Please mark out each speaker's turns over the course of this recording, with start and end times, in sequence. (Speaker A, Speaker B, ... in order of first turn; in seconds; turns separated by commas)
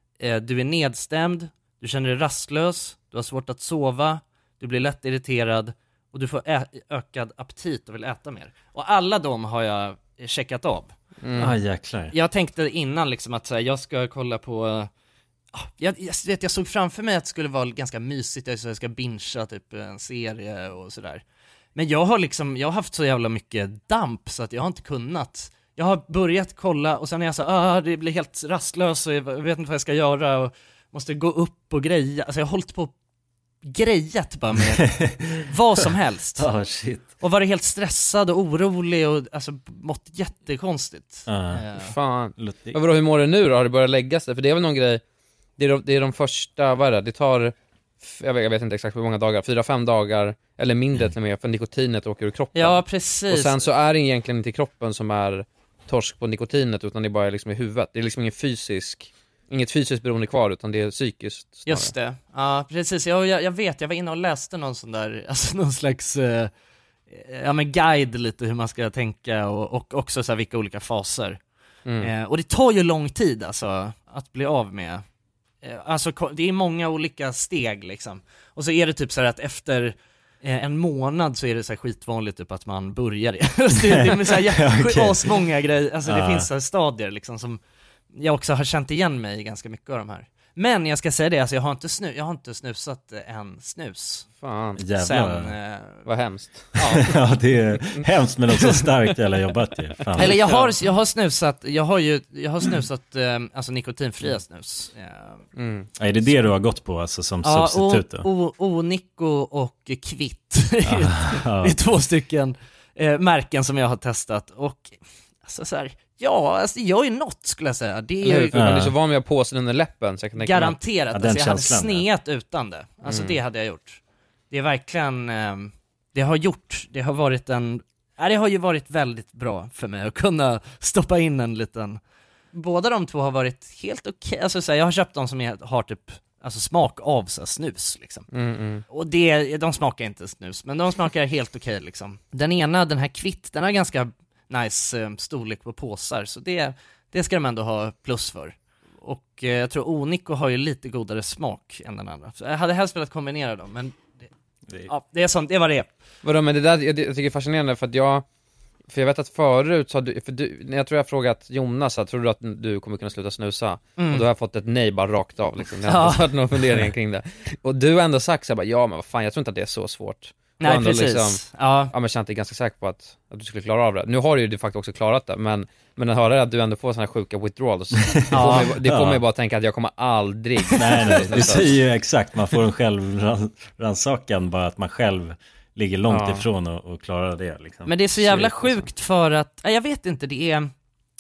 Speaker A: 0.2-10.9, Speaker B: 11.2-11.6, Speaker C: 11.4-12.1, Speaker A: 12.1-14.9, Speaker A: 15.5-21.2, Speaker A: 21.8-32.9, Speaker A: 33.6-36.5, Speaker C: 34.9-35.5, Speaker C: 36.4-37.1, Speaker A: 37.1-41.9, Speaker C: 41.3-41.6, Speaker B: 41.8-45.0, Speaker C: 42.4-42.8, Speaker B: 45.6-61.9, Speaker A: 52.5-53.7, Speaker A: 61.7-66.5, Speaker A: 67.1-71.4, Speaker B: 71.8-72.1, Speaker A: 72.0-75.0, Speaker A: 75.6-87.6, Speaker C: 84.1-85.4, Speaker C: 86.0-86.5, Speaker A: 88.1-94.3, Speaker B: 94.4-94.8, Speaker C: 94.8-95.5, Speaker A: 95.0-96.1, Speaker B: 96.1-97.2, Speaker A: 96.8-97.1, Speaker C: 96.9-100.5, Speaker B: 100.1-100.7, Speaker A: 100.2-105.4, Speaker B: 105.6-105.9, Speaker C: 106.0-108.3, Speaker A: 107.4-118.6, Speaker C: 110.9-111.7, Speaker B: 118.2-120.8, Speaker C: 118.5-118.9, Speaker A: 120.4-132.0, Speaker C: 121.1-122.0, Speaker B: 123.1-123.4, Speaker A: 132.5-138.3, Speaker B: 138.3-138.8, Speaker A: 138.9-154.2, Speaker A: 154.9-155.9, Speaker B: 156.2-158.3, Speaker B: 158.9-181.7, Speaker A: 164.0-164.3, Speaker A: 165.9-166.2, Speaker A: 170.6-171.9, Speaker C: 178.1-179.2, Speaker A: 178.3-178.8, Speaker C: 180.8-188.0, Speaker B: 186.1-186.4, Speaker A: 187.9-190.7, Speaker B: 188.2-188.9